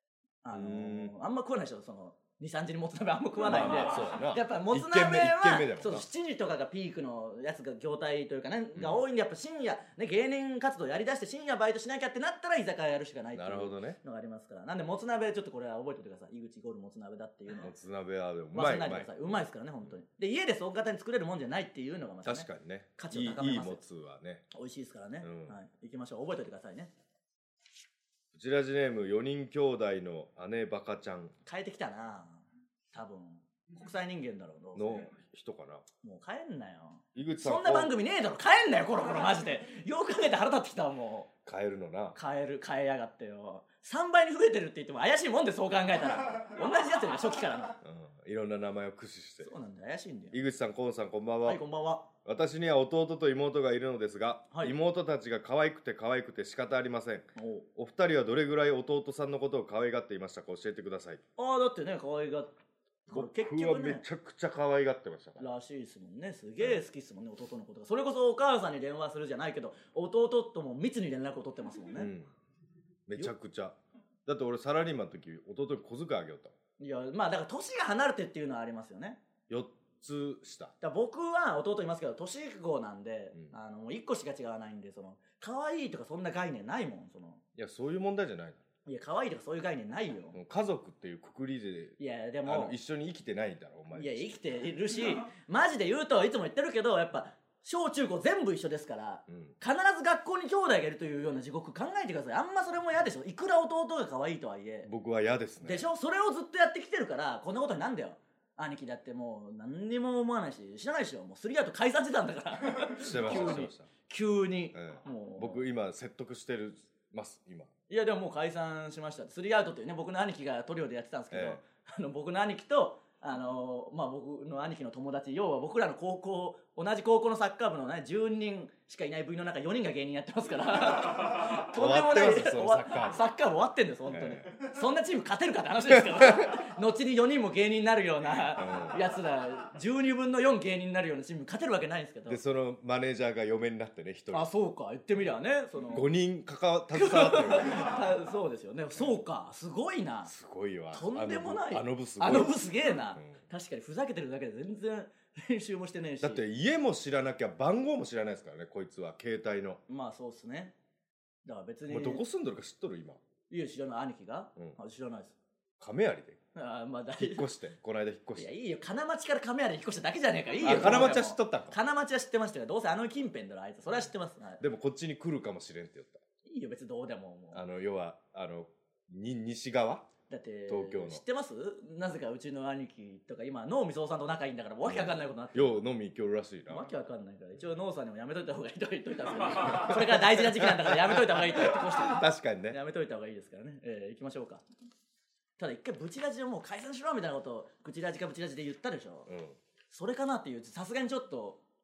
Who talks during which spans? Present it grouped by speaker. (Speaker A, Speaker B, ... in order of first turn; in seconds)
Speaker A: 0.4-17.7, 18.5-23.8, 24.5-26.9, 31.4-35.1, 36.0-41.3, 42.1-47.8, 49.4-50.4, 51.4-52.0, 57.4-57.6, 61.4-62.5, 63.1-64.0, 65.4-72.1, 76.8-79.2, 80.8-87.4, 88.8-90.4, 92.0-92.7, 93.9-104.9, 105.6-115.6, 117.9-142.4, 144.3-146.1, 146.9-150.3, 150.9-156.4, 159.9-160.7, 161.4-162.2, 163.5-165.3, 166.6-167.5, 168.4-174.6, 176.4-177.6, 180.3-185.8, 186.7-194.6, 195.6-199.3, 199.9-201.6
Speaker B: 0.5-1.1, 3.4-6.0, 8.8-9.0, 13.3-14.0, 17.6-19.4, 22.2-24.4, 25.2-25.6, 28.3-31.3, 34.8-35.8, 37.1-37.9, 41.4-42.2, 47.8-49.5, 50.3-51.6, 52.2-61.2, 63.1-65.5, 72.0-72.3, 73.1-76.5, 79.5-80.7, 87.5-88.6, 90.3-94.3, 99.3-99.5, 104.8-105.8, 112.8-113.9, 114.7-117.7, 121.3-121.6, 130.7-133.2, 134.1-134.5, 135.9-136.5, 138.6-139.0, 142.3-144.5, 145.9-148.0, 150.2-152.5, 156.2-159.8, 161.9-163.2, 165.8-166.4, 167.2-168.5, 170.6-171.8, 174.6-176.2, 177.5-180.1, 180.7-181.2, 184.8-186.9, 189.7-192.8, 199.3-199.6